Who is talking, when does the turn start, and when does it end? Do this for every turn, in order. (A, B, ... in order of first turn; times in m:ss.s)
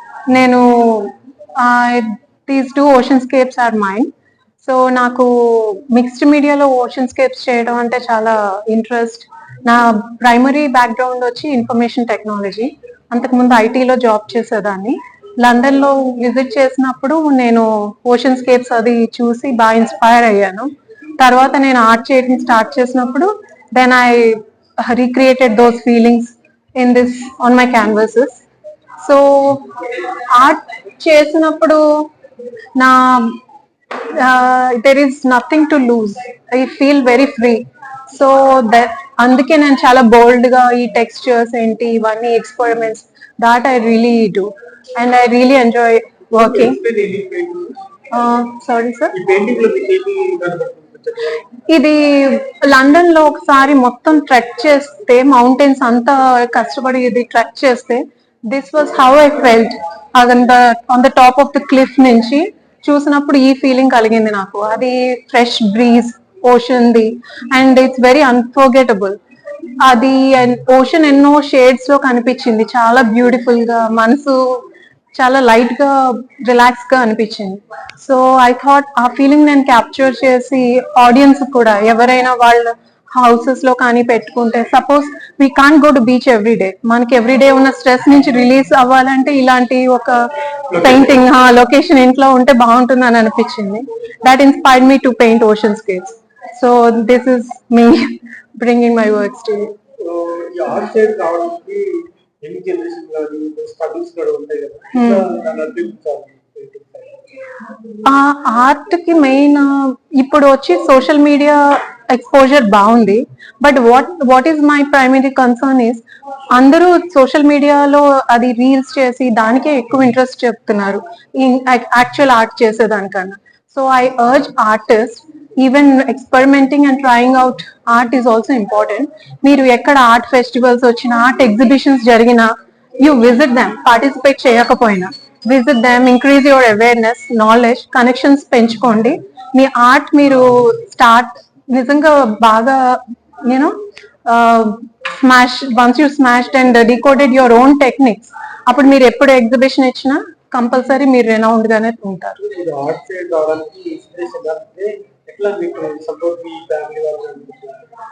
0:00.3-0:04.1 A
0:04.6-0:28.4 A
0:29.0-0:29.8 A
0:30.3-0:32.1 A
0:32.8-0:33.4 A
0:34.0-0:46.8 A
0:46.3-0:47.8 B
0:48.1-0:49.1 A
0:49.1-0:51.5 B
0:51.7-1:09.2 A
1:09.8-1:39.7 A
1:40.0-1:47.2 B
1:44.9-1:45.2 A
1:48.0-1:56.0 A
1:56.6-2:32.4 A
2:32.4-2:37.8 B